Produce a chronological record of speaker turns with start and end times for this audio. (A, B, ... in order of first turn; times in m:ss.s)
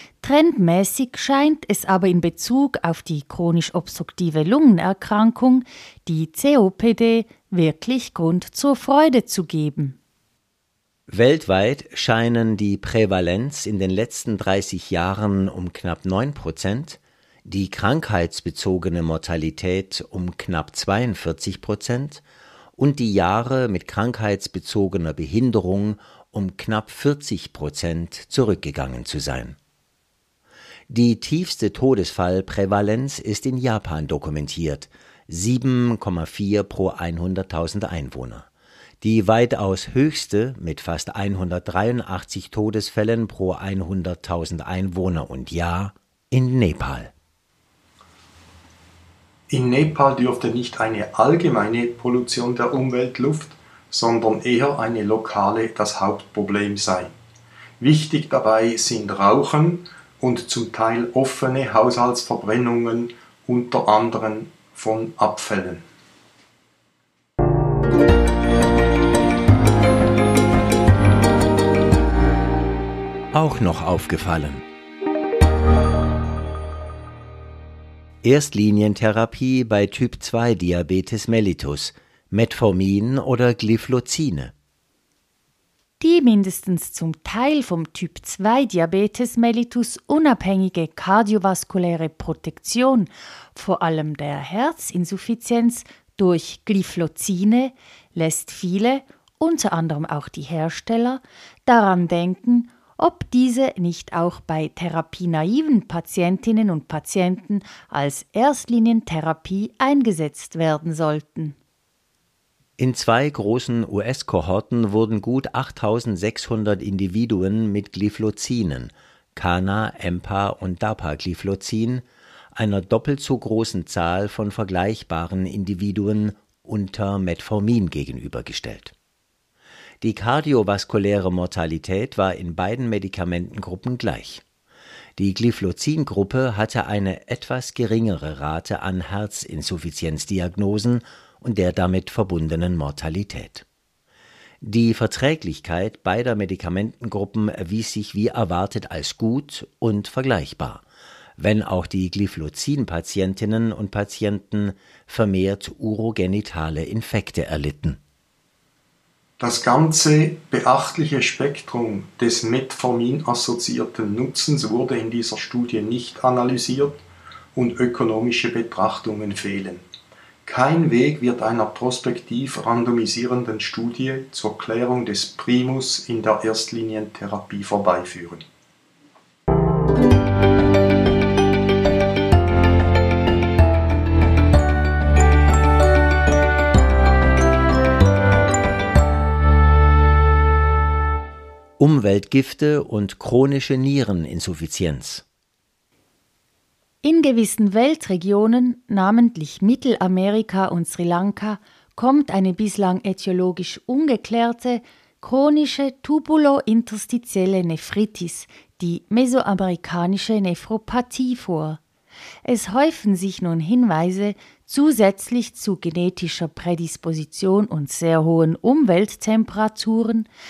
0:00.2-0:10.0 A
0:11.1-0:22.2 B
0:22.8-0:29.6 B
0:30.9-0:38.5 B
0:39.0-0:47.1 B
0:49.5-0:57.1 C
0:57.8-1:05.8 C
1:13.3-1:14.6 B
1:18.2-1:24.5 B
1:26.0-1:51.6 A
1:52.8-2:08.9 B
2:10.0-2:14.4 B
2:15.2-2:23.6 B
2:24.6-2:30.8 B
2:31.4-2:38.0 B
2:39.4-2:47.0 C
2:47.6-2:49.8 C
2:50.5-2:58.4 C
3:11.8-3:15.2 B
3:17.0-3:31.8 A
3:32.4-3:40.3 A